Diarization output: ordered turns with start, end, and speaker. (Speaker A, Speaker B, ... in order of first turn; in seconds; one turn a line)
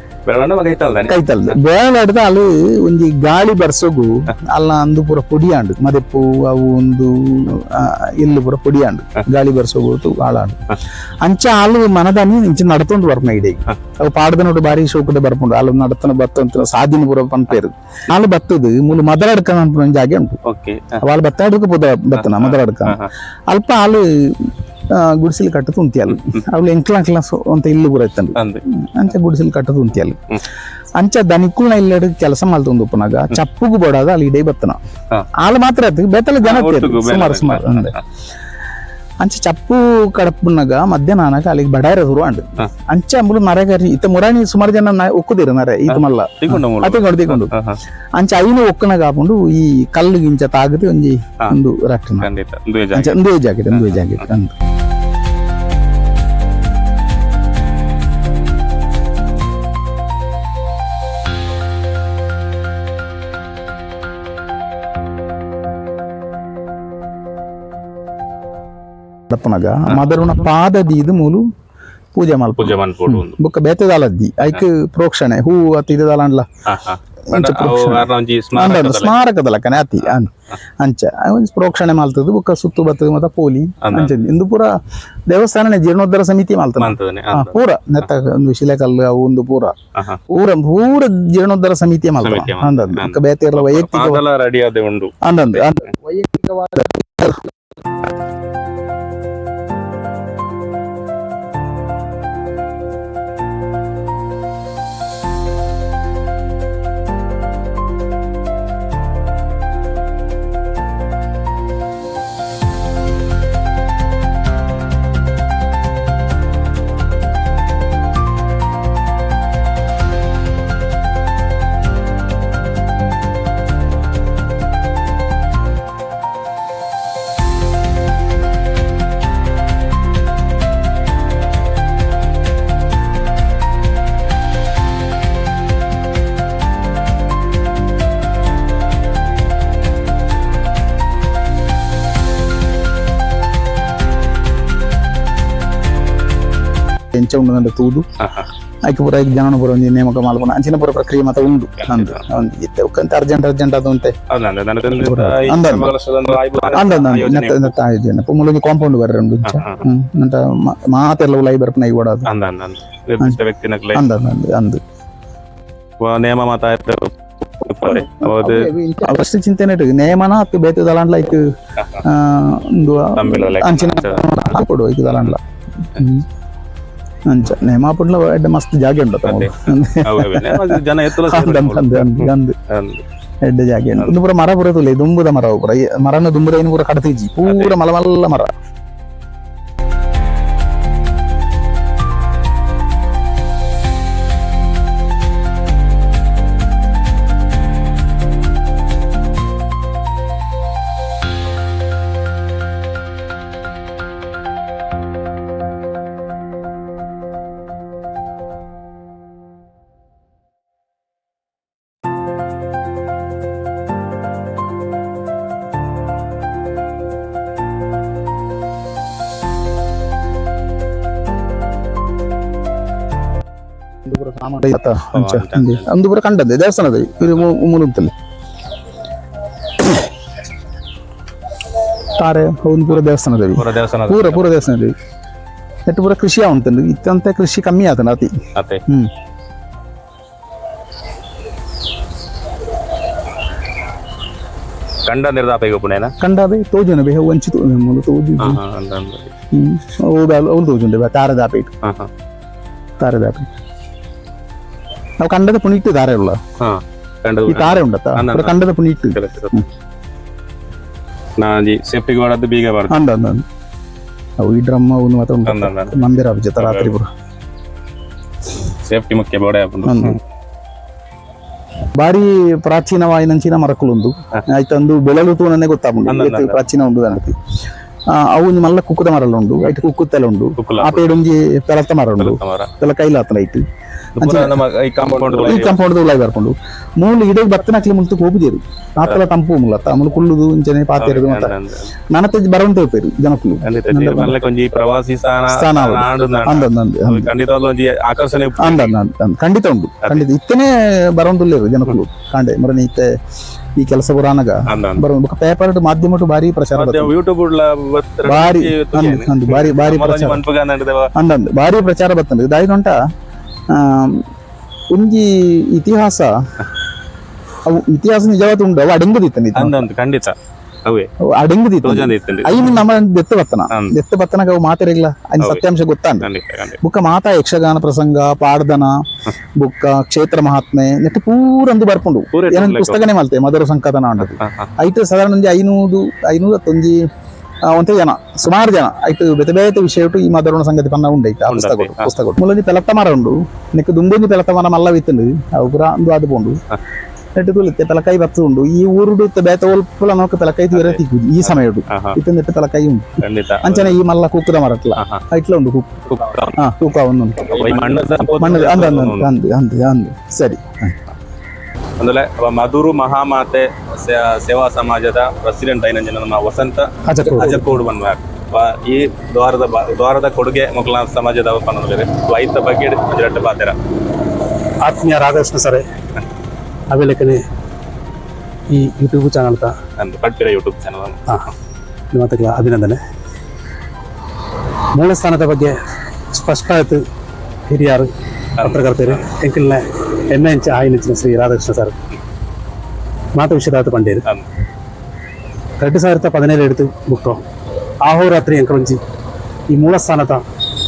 Speaker A: 0.2-1.2
Speaker B: 1.1-20.4
Speaker A: 20.4-21.0
Speaker B: 21.0-30.3
Speaker A: 22.2-23.1
Speaker A: 28.4-28.6
Speaker B: 30.9-34.8
Speaker B: 35.4-37.9
Speaker A: 36.4-38.0
Speaker B: 39.2-47.5
Speaker A: 45.9-47.8
Speaker B: 48.2-52.3
Speaker A: 52.2-53.2
Speaker B: 52.9-54.5
Speaker A: 53.7-54.1
Speaker B: 69.3-71.5
Speaker B: 72.1-76.5
Speaker A: 72.6-73.4
Speaker A: 76.7-79.1
Speaker B: 77.3-89.8
Speaker A: 83.8-84.1
Speaker A: 86.8-87.5
Speaker A: 89.9-90.2
Speaker B: 90.3-94.2
Speaker A: 92.2-95.6
Speaker B: 95.2-97.5
Speaker B: 147.1-148.1
Speaker A: 148.2-148.5
Speaker B: 148.8-154.1
Speaker A: 151.9-152.2
Speaker A: 154.3-157.7
Speaker B: 154.9-155.9
Speaker B: 156.7-162.3
Speaker A: 159.5-159.8
Speaker A: 162.3-164.1
Speaker B: 163.9-164.8
Speaker A: 166.0-168.7
Speaker B: 167.8-171.5
Speaker B: 172.0-176.3
Speaker A: 173.1-174.4
Speaker B: 177.2-182.6
Speaker A: 179.2-183.0
Speaker B: 183.4-188.5
Speaker A: 187.4-187.8
Speaker B: 224.0-228.1
Speaker A: 225.1-225.9
Speaker B: 232.2-234.9
Speaker A: 233.5-234.6
Speaker B: 235.9-239.1
Speaker A: 238.5-238.8
Speaker A: 245.1-246.1
Speaker B: 246.2-248.6
Speaker A: 248.4-249.3
Speaker B: 249.5-251.7
Speaker A: 251.8-252.1
Speaker B: 253.0-253.5
Speaker B: 255.2-256.4
Speaker A: 256.6-258.6
Speaker B: 257.5-259.6
Speaker A: 259.1-259.6
Speaker A: 261.4-263.0
Speaker B: 262.9-263.4
Speaker B: 264.4-267.1
Speaker A: 265.4-266.0
Speaker A: 266.6-266.9
Speaker A: 268.8-270.2
Speaker B: 269.9-270.2
Speaker B: 271.9-277.4
Speaker A: 276.1-276.6
Speaker B: 278.1-283.6
Speaker A: 280.6-281.1
Speaker A: 282.2-282.7
Speaker A: 284.2-285.8
Speaker B: 284.2-291.5
Speaker A: 291.0-291.9
Speaker B: 292.1-294.4
Speaker A: 293.6-298.9
Speaker B: 295.5-297.3
Speaker B: 298.6-303.1
Speaker B: 303.8-307.1
Speaker A: 304.7-305.0
Speaker A: 306.7-311.1
Speaker B: 308.2-310.4
Speaker B: 311.1-313.0
Speaker B: 313.7-314.2
Speaker B: 314.9-316.5
Speaker B: 317.6-319.9
Speaker A: 319.6-321.1
Speaker B: 321.2-326.3
Speaker A: 321.8-322.8
Speaker A: 323.7-323.9
Speaker A: 326.2-326.8
Speaker B: 326.8-329.0
Speaker B: 329.6-337.1
Speaker A: 332.3-333.1
Speaker A: 334.4-334.7
Speaker B: 337.6-346.6
Speaker A: 341.5-342.1
Speaker B: 347.4-361.0
Speaker A: 350.7-351.0
Speaker A: 351.9-352.2
Speaker A: 353.2-354.0
Speaker A: 355.0-355.2
Speaker A: 356.1-356.6
Speaker A: 357.5-359.3
Speaker A: 362.0-373.8
Speaker C: 367.1-367.7
Speaker B: 367.4-367.7
Speaker C: 374.8-375.9
Speaker C: 376.9-377.4
Speaker C: 378.7-379.8
Speaker A: 380.0-381.3
Speaker C: 382.1-383.0
Speaker C: 384.9-385.8
Speaker C: 386.3-387.0
Speaker C: 387.7-392.0
Speaker A: 388.6-389.2
Speaker C: 393.3-394.3
Speaker C: 395.8-397.4
Speaker C: 398.0-399.0
Speaker C: 399.7-400.4